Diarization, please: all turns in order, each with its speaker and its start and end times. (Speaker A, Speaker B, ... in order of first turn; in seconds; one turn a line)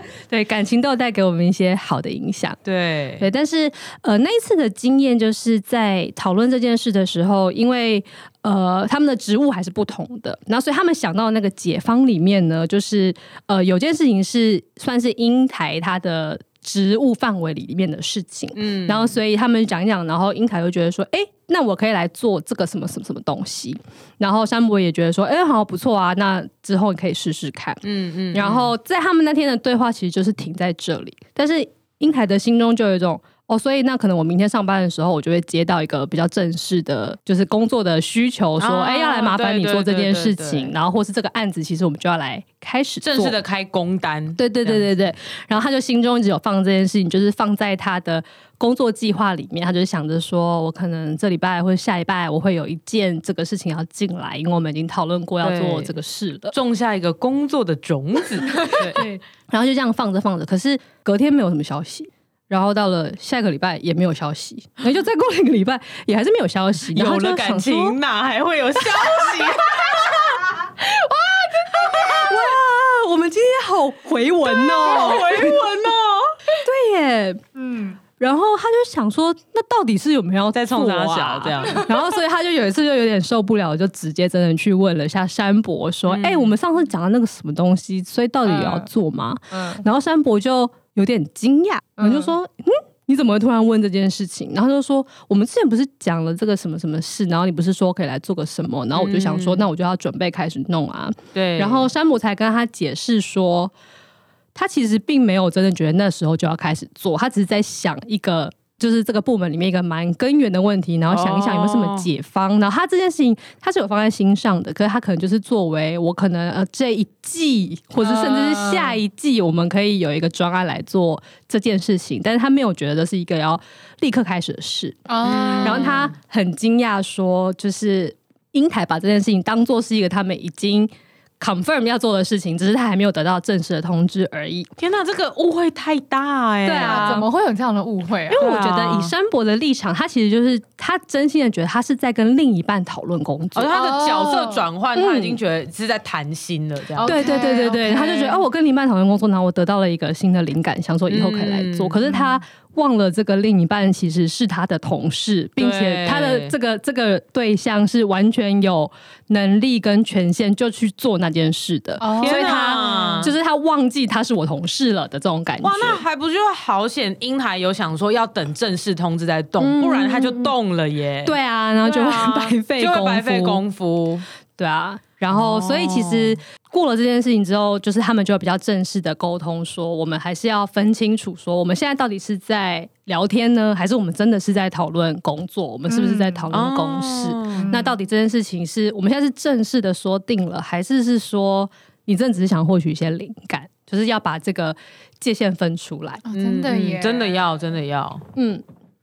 Speaker A: 0.3-2.6
Speaker B: 2.6-3.3
Speaker A: 3.2-43.4
Speaker B: 18.6-19.2
Speaker B: 27.8-28.7
Speaker B: 38.6-40.7
Speaker B: 43.0-44.9
Speaker A: 44.4-56.5
Speaker B: 55.4-55.9
Speaker B: 56.5-59.0
Speaker A: 58.8-68.0
Speaker B: 66.9-70.5
Speaker A: 69.0-69.3
Speaker C: 70.8-72.3
Speaker A: 72.0-75.6
Speaker B: 74.5-76.3
Speaker C: 74.9-75.2
Speaker A: 76.6-77.4
Speaker C: 77.5-78.0
Speaker A: 78.2-103.7
Speaker B: 80.5-81.9
Speaker C: 81.7-82.0
Speaker B: 86.1-86.5
Speaker C: 88.5-88.9
Speaker C: 89.5-89.8
Speaker C: 92.0-92.3
Speaker B: 98.9-99.7
Speaker B: 101.3-101.9
Speaker A: 104.5-134.7
Speaker B: 111.1-112.1
Speaker C: 118.0-119.0
Speaker C: 125.1-126.1
Speaker B: 125.2-126.1
Speaker B: 134.8-137.2
Speaker A: 136.7-137.3
Speaker C: 136.8-138.4
Speaker A: 138.3-143.8
Speaker B: 138.4-139.1
Speaker B: 143.6-147.2
Speaker C: 143.7-144.6
Speaker A: 144.9-145.4
Speaker C: 147.0-148.4
Speaker A: 147.0-166.0
Speaker B: 151.1-152.0
Speaker C: 152.1-152.4
Speaker B: 155.6-156.5
Speaker C: 162.0-163.2
Speaker B: 162.2-163.3
Speaker B: 165.6-174.3
Speaker A: 169.6-170.5
Speaker A: 171.2-173.6
Speaker A: 174.6-196.2
Speaker B: 175.3-176.4
Speaker C: 185.9-186.5
Speaker B: 186.5-187.7
Speaker C: 187.5-188.0
Speaker C: 196.2-197.5
Speaker B: 196.3-198.2
Speaker A: 198.3-198.6